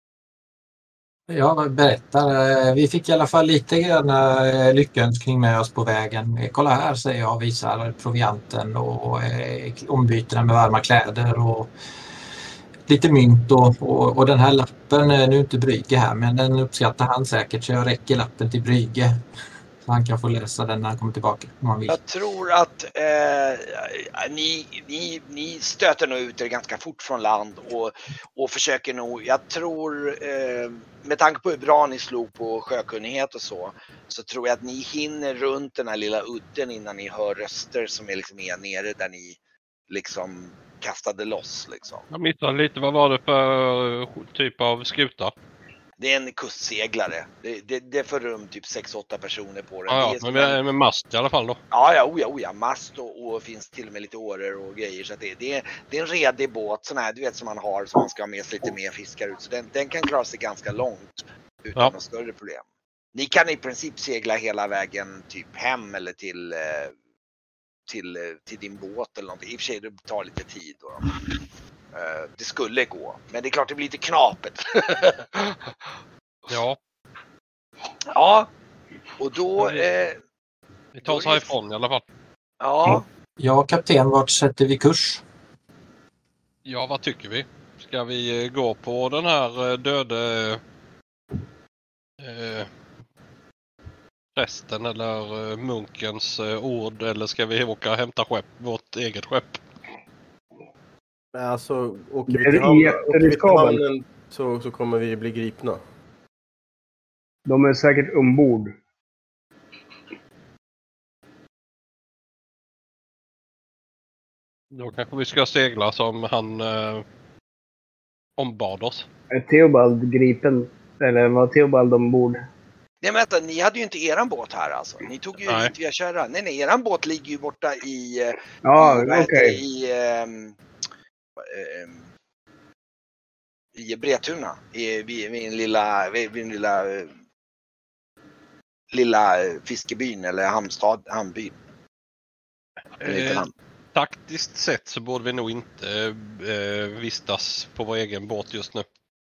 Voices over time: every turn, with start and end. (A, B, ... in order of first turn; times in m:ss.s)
0:01.3-0:11.7 A
0:12.9-0:19.2 A
0:19.8-0:22.0 A
0:21.9-0:39.4 B
0:39.9-0:42.0 B
0:42.1-0:45.3 C
0:46.0-0:50.6 B
0:49.9-0:51.6 C
0:51.7-1:02.6 B
1:03.1-1:06.9 B
1:07.9-1:11.1 B
1:11.9-1:15.6 B
1:16.5-1:16.8 C
1:18.1-1:18.5 B
1:19.2-1:20.2 B
1:19.6-1:19.8 C
1:20.9-1:22.0 C
1:21.0-1:21.5 B
1:22.6-1:23.0 B
1:22.8-1:25.2 A
1:26.6-1:30.6 C
1:32.2-1:32.7 C
1:34.4-1:39.6 C
1:41.3-1:45.8 D
1:42.3-1:43.8 E
1:47.4-1:48.7 E
1:54.7-1:57.0 C
1:58.4-1:59.1 C
1:59.3-2:02.4 E
2:03.0-2:10.6 B
2:08.6-2:09.6 E
2:11.4-2:12.1 B
2:13.7-2:17.1 B
2:18.9-2:21.6 B
2:23.0-2:28.8 C
2:23.0-2:23.5 B